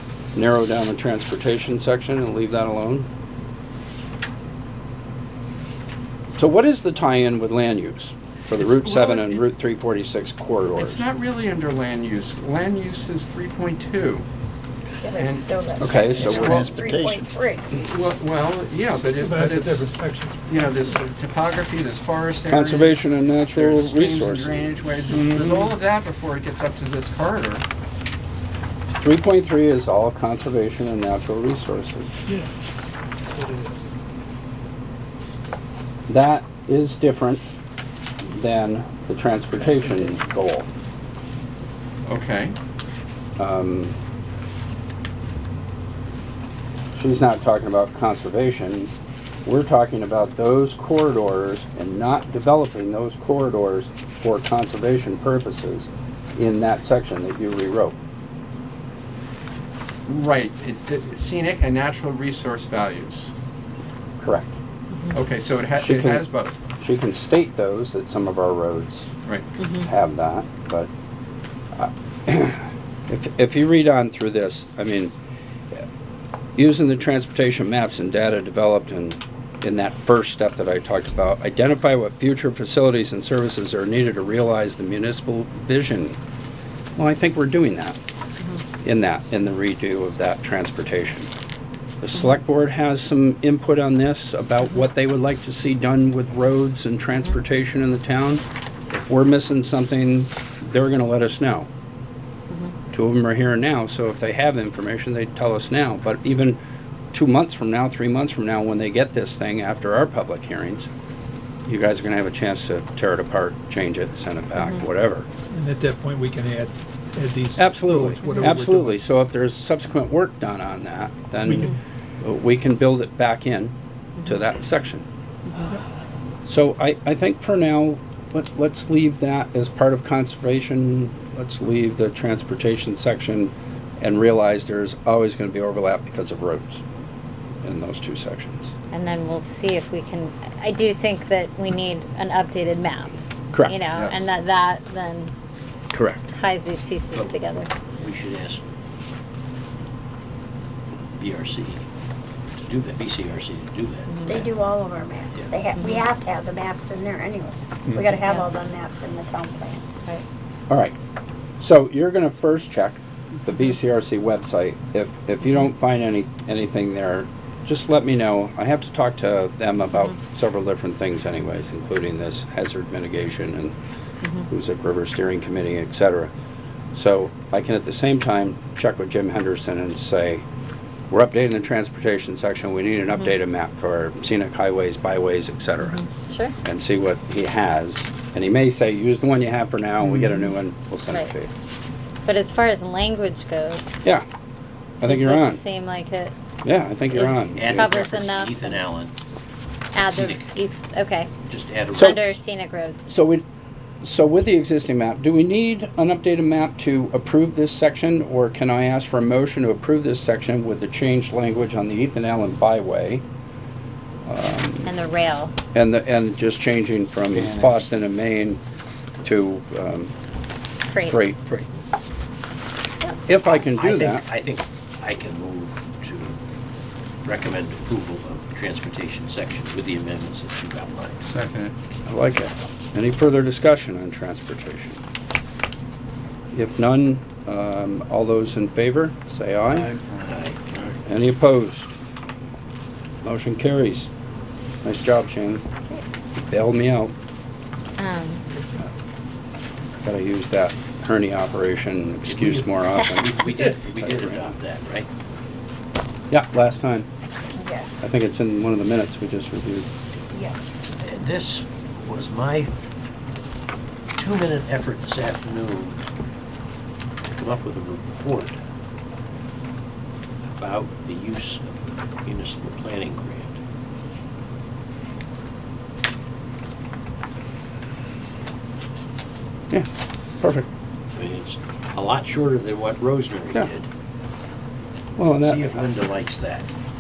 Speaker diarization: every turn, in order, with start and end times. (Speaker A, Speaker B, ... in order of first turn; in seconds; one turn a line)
Speaker A: 0.3-3.1
Speaker A: 6.4-11.0
Speaker B: 8.6-9.4
Speaker B: 10.8-14.3
Speaker C: 15.0-17.7
Speaker B: 15.1-16.8
Speaker A: 15.8-16.8
Speaker D: 16.2-17.2
Speaker B: 17.7-19.9
Speaker E: 19.2-21.1
Speaker B: 20.5-27.6
Speaker A: 22.5-25.7
Speaker A: 29.0-32.1
Speaker E: 33.2-33.9
Speaker A: 36.1-37.5
Speaker A: 38.2-40.7
Speaker B: 42.0-42.6
Speaker A: 43.4-44.0
Speaker A: 46.9-48.9
Speaker A: 49.5-58.0
Speaker B: 60.1-63.3
Speaker A: 64.2-64.5
Speaker F: 64.9-65.2
Speaker B: 65.1-66.6
Speaker A: 65.8-66.3
Speaker A: 66.8-69.1
Speaker F: 69.6-69.9
Speaker A: 69.8-70.9
Speaker A: 71.8-75.1
Speaker A: 76.6-86.2
Speaker A: 87.0-88.0
Speaker A: 88.8-91.3
Speaker A: 92.0-101.7
Speaker F: 102.5-102.8
Speaker A: 102.9-106.6
Speaker A: 107.1-110.9
Speaker A: 111.7-115.3
Speaker F: 114.6-114.9
Speaker E: 115.5-119.0
Speaker A: 117.6-125.0
Speaker E: 121.4-121.7
Speaker F: 125.5-125.8
Speaker A: 126.5-136.8
Speaker A: 137.6-138.7
Speaker F: 138.9-145.3
Speaker A: 145.9-146.3
Speaker F: 146.3-147.7
Speaker D: 147.1-147.4
Speaker D: 148.0-148.6
Speaker D: 151.2-151.8
Speaker D: 152.6-154.5
Speaker F: 154.1-154.5
Speaker C: 154.3-159.8
Speaker F: 155.8-156.1
Speaker F: 158.2-158.5
Speaker A: 160.7-161.0
Speaker A: 161.6-173.8
Speaker F: 174.2-174.5
Speaker A: 174.5-176.3
Speaker A: 176.9-180.5
Speaker A: 181.1-186.0
Speaker F: 185.8-186.6
Speaker A: 186.6-191.5
Speaker F: 190.1-190.5
Speaker F: 191.1-191.3
Speaker F: 192.2-194.0
Speaker A: 195.0-195.6
Speaker F: 195.0-196.3
Speaker A: 196.6-197.9
Speaker F: 197.1-198.8
Speaker D: 197.4-199.1
Speaker F: 199.9-201.3
Speaker D: 200.0-200.6
Speaker D: 201.5-202.2
Speaker F: 201.9-203.1
Speaker A: 203.1-203.4
Speaker A: 204.0-213.2
Speaker A: 214.3-214.9
Speaker F: 214.8-215.5
Speaker A: 215.7-218.6
Speaker D: 217.3-217.8
Speaker A: 219.2-220.1
Speaker F: 220.8-221.2
Speaker A: 221.0-221.6
Speaker A: 223.3-224.2
Speaker D: 223.5-226.4
Speaker D: 227.2-231.2
Speaker B: 231.2-231.7
Speaker A: 232.1-235.0
Speaker A: 236.5-239.9
Speaker D: 239.7-241.0
Speaker A: 241.1-241.9
Speaker A: 243.2-244.1
Speaker A: 244.8-245.6
Speaker A: 246.3-247.1
Speaker F: 248.0-248.4
Speaker A: 250.0-254.5
Speaker D: 252.3-255.1
Speaker A: 256.3-257.1
Speaker C: 257.6-258.0
Speaker A: 258.0-259.9
Speaker C: 260.3-260.8
Speaker D: 260.9-262.7
Speaker D: 264.2-266.0
Speaker D: 267.2-268.6
Speaker D: 270.5-273.6
Speaker A: 280.4-280.7
Speaker D: 281.1-283.9
Speaker A: 285.2-285.8
Speaker D: 285.4-286.7